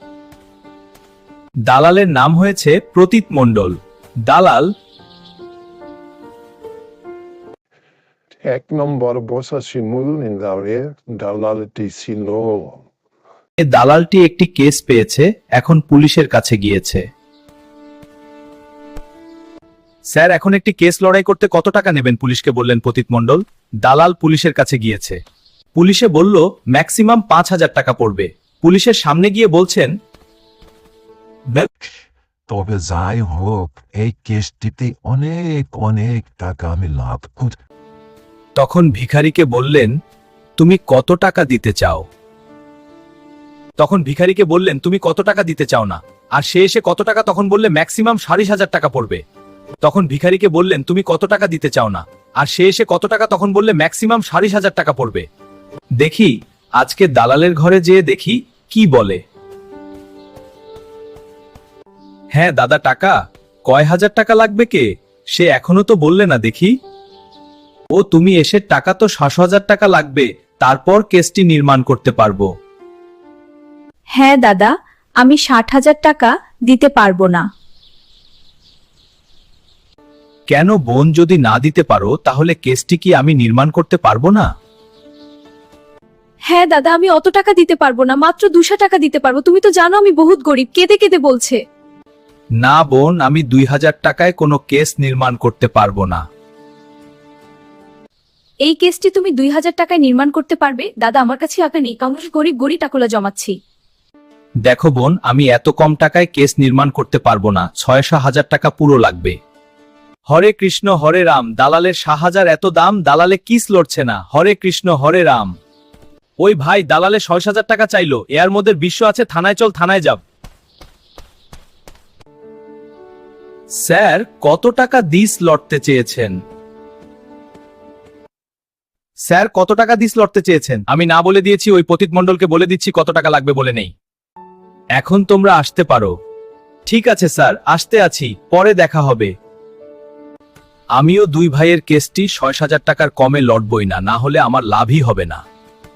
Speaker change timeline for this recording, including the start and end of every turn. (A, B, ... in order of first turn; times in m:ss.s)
0:01.7-0:04.7 A
0:08.4-0:12.8 B
0:13.6-0:17.0 A
0:20.1-0:25.2 A
0:25.8-0:29.9 A
0:32.5-0:37.6 C
0:38.6-0:39.9 A
0:40.6-0:42.0 A
0:43.8-0:49.2 A
0:49.8-0:55.3 A
0:56.0-0:59.2 A
1:02.4-1:06.7 A
1:07.9-1:12.5 A
1:14.2-1:17.4 D
1:20.5-1:24.5 A
1:26.5-1:31.6 D
1:32.6-1:36.2 A
1:38.6-1:43.5 D
1:44.6-1:49.4 A
1:50.3-1:55.5 A
1:56.4-2:00.2 A
2:03.8-2:06.4 A
2:09.3-2:13.9 A
2:15.0-2:16.2 A
2:16.9-2:19.3 A
2:21.0-2:25.4 A